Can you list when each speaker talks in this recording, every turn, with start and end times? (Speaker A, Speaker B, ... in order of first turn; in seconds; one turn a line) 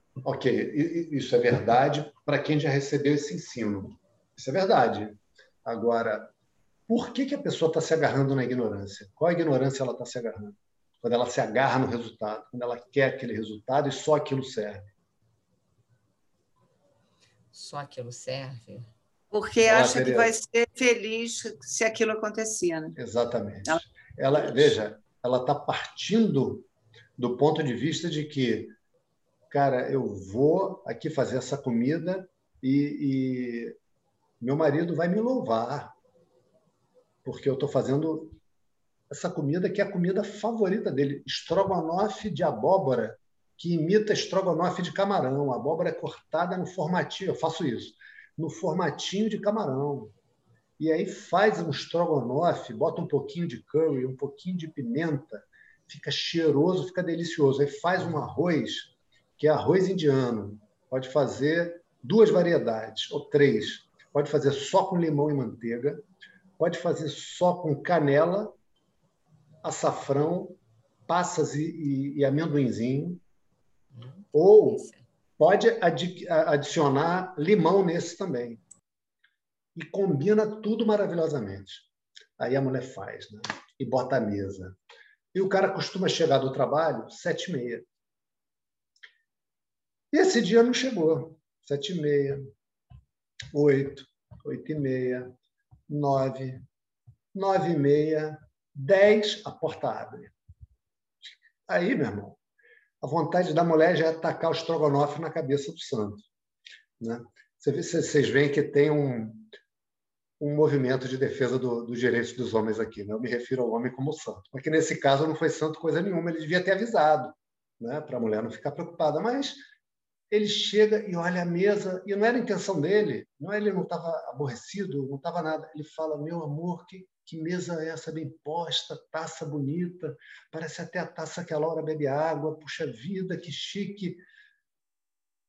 Speaker A: 0.2-6.3
Speaker A: 6.9-14.9
Speaker B: 17.5-18.9
Speaker C: 19.3-22.9
Speaker A: 19.6-20.4
Speaker A: 22.9-26.7
Speaker C: 24.4-24.7
Speaker A: 27.2-28.8
Speaker A: 29.5-33.8
Speaker A: 34.4-35.9
Speaker A: 37.2-38.4
Speaker A: 39.1-50.1
Speaker A: 50.8-66.0
Speaker A: 66.6-68.5
Speaker A: 69.6-73.2
Speaker B: 73.9-75.0
Speaker A: 74.3-74.9
Speaker A: 75.4-78.6
Speaker A: 79.7-84.8
Speaker A: 85.3-87.9
Speaker A: 90.1-92.5
Speaker A: 93.5-95.3
Speaker A: 95.9-96.6
Speaker A: 97.3-100.3
Speaker A: 101.7-102.4
Speaker A: 103.0-106.2
Speaker A: 107.0-109.5
Speaker A: 110.4-119.6
Speaker A: 120.3-134.2